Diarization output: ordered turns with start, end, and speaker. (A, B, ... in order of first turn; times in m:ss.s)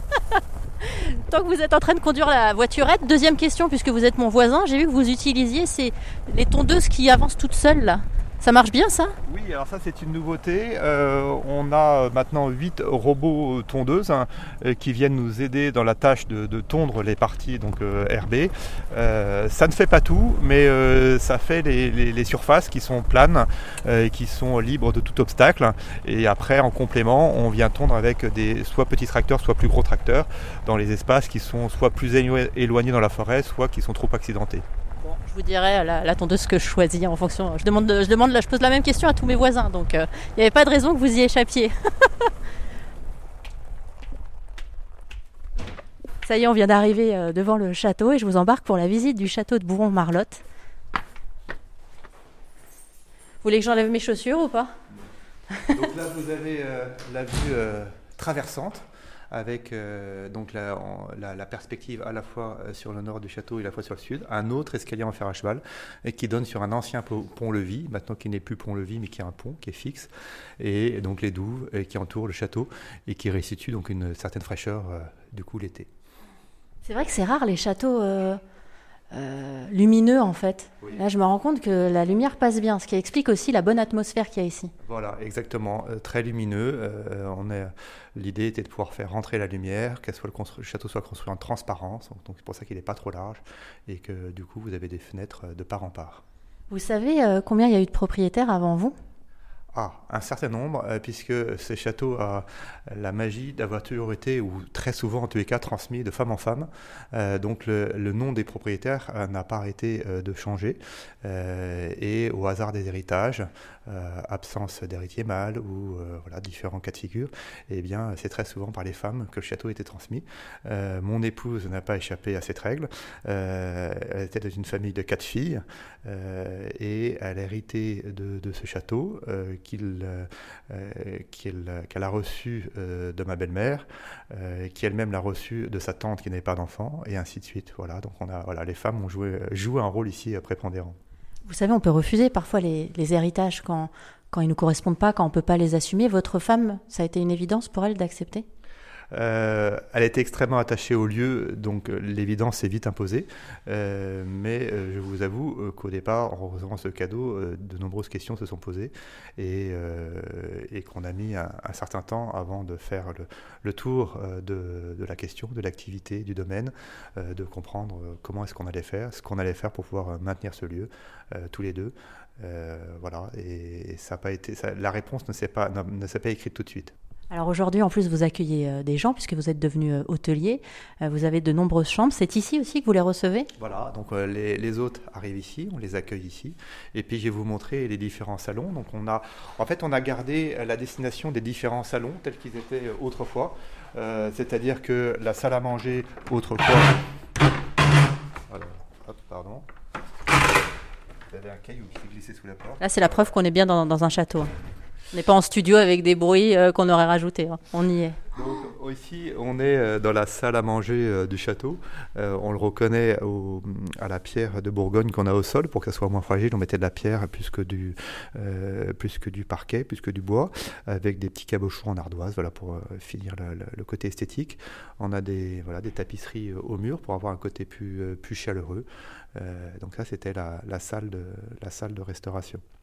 0:00.4-0:09.1 A
0:09.2-0:34.6 B
0:35.0-0:42.3 A
0:46.2-0:50.4 A
0:53.4-0:54.7 A
0:55.7-1:15.9 B
1:16.8-1:18.4 A
1:19.1-1:24.7 A
1:24.8-1:36.2 B
1:36.7-1:38.9 A
1:39.7-2:21.0 B
2:21.4-2:28.4 A
2:29.1-2:56.9 B
2:57.3-3:03.5 A
3:03.6-3:17.0 B
3:18.5-3:19.6 B
3:21.3-3:23.3 B
3:22.8-3:24.5 A
3:25.1-3:28.2 A
3:28.3-3:52.6 B